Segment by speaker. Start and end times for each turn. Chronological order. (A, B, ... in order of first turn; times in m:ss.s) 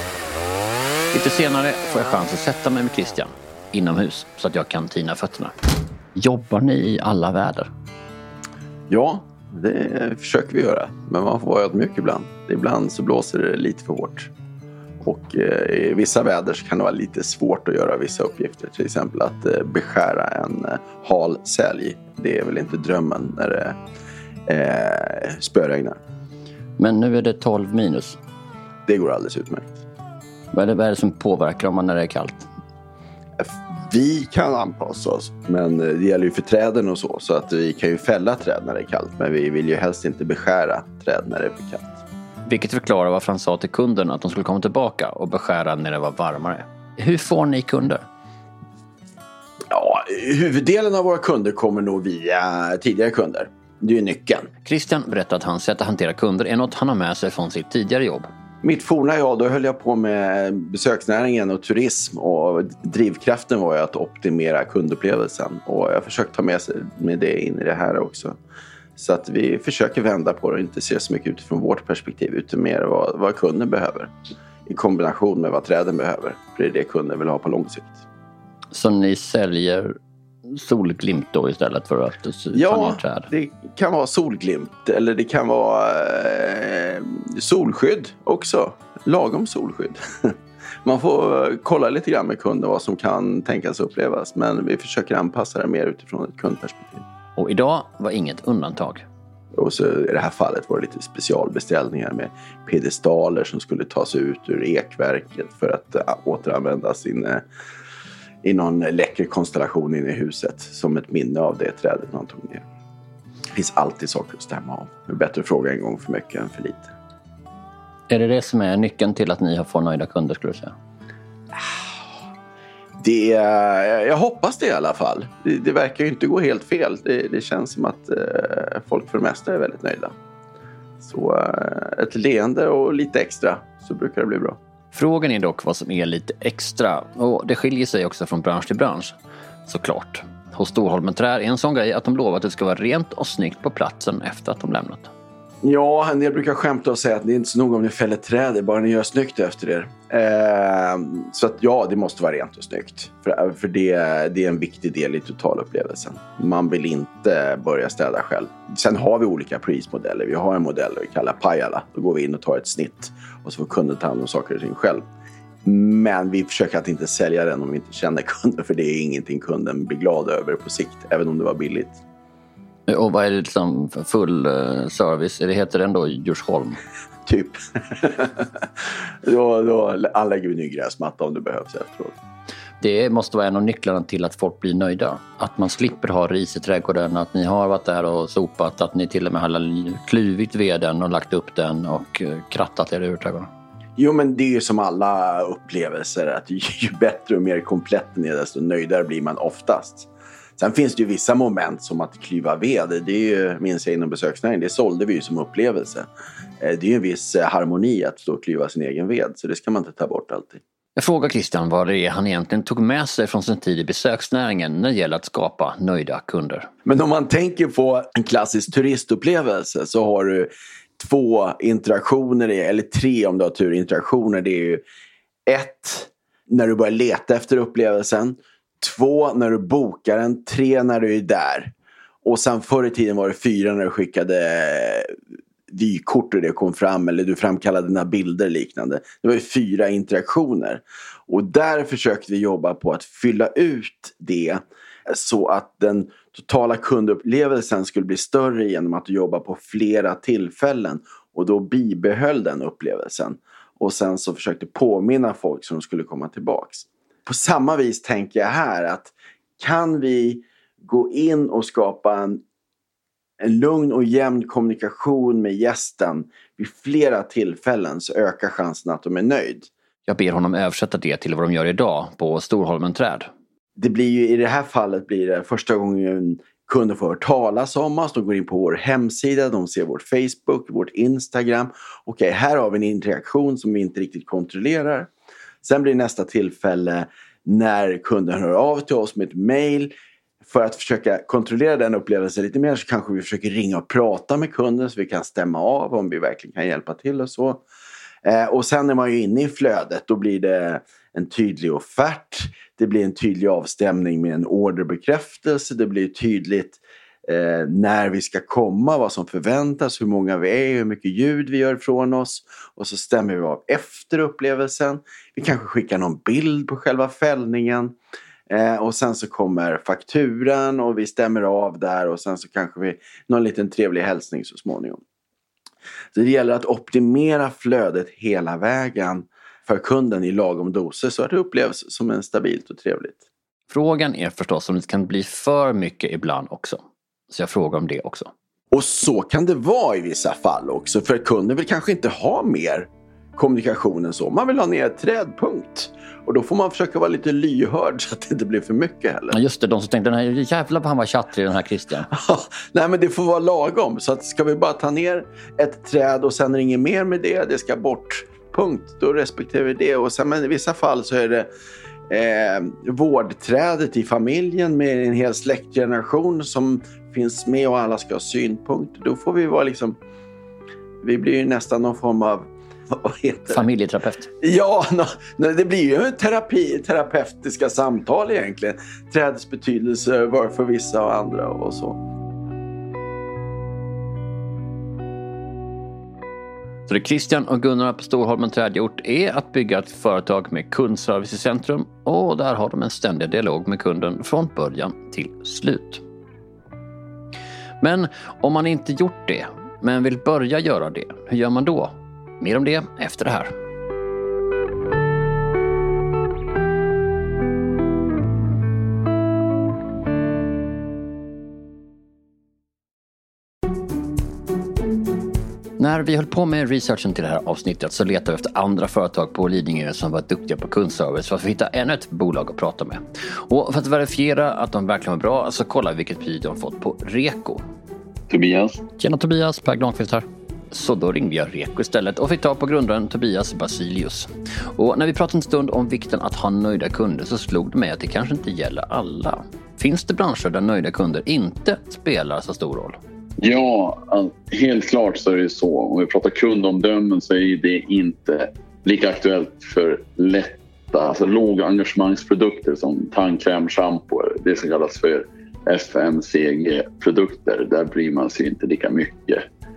0:01.1-0:05.5 A
0:06.2-0:07.7 A
0:08.9-0:14.3 B
0:15.0-0:23.8 B
0:24.5-0:26.0 B
0:26.8-0:28.2 A
0:28.9-0:29.8 B
0:30.5-0:32.5 A
0:33.4-0:42.0 B
0:42.5-0:48.0 A
0:49.7-0:54.5 B
0:54.6-0:58.3 A
0:58.6-1:08.4 B
1:09.0-1:14.1 B
1:14.7-1:18.0 B
1:18.7-1:20.0 A
1:20.5-1:23.3 A
1:22.5-1:30.3 B
1:30.8-1:37.0 B
1:37.4-1:39.0 A
1:39.6-1:47.4 B
1:48.4-1:52.6 B
1:53.5-1:56.9 B
1:58.1-2:00.8 A
2:03.0-2:10.1 B
2:11.0-2:14.6 B
2:14.9-2:19.2 A
2:19.7-2:25.1 A
2:25.6-2:45.0 B
2:45.6-2:52.0 B
2:52.9-2:56.8 A
2:57.3-2:58.4 B
2:59.2-3:02.2 B
3:02.8-3:13.5 A
3:14.0-3:26.1 B
3:26.6-3:30.6 B
3:31.0-3:36.7 A
3:36.8-3:44.8 B
3:45.5-3:51.7 B
3:52.2-3:55.1 B
3:55.7-4:22.4 B
4:23.4-4:29.7 B
4:30.1-4:33.3 A
4:33.8-4:45.1 B
4:45.6-4:49.9 B
4:50.4-4:57.6 B
4:58.2-5:18.0 B
5:18.5-5:25.0 B
5:26.1-5:33.2 B
5:33.7-5:38.3 A
5:38.7-5:49.4 B
5:49.3-5:52.1 A
5:52.1-6:01.5 B
6:02.1-6:10.0 B
6:11.0-6:13.7 B
6:13.5-6:14.3 A
6:14.4-6:22.0 B
6:26.9-6:36.0 A
6:37.8-6:43.5 A
6:55.8-7:07.6 A
7:08.3-7:08.8 C
7:09.0-7:23.0 A
7:23.4-7:39.4 C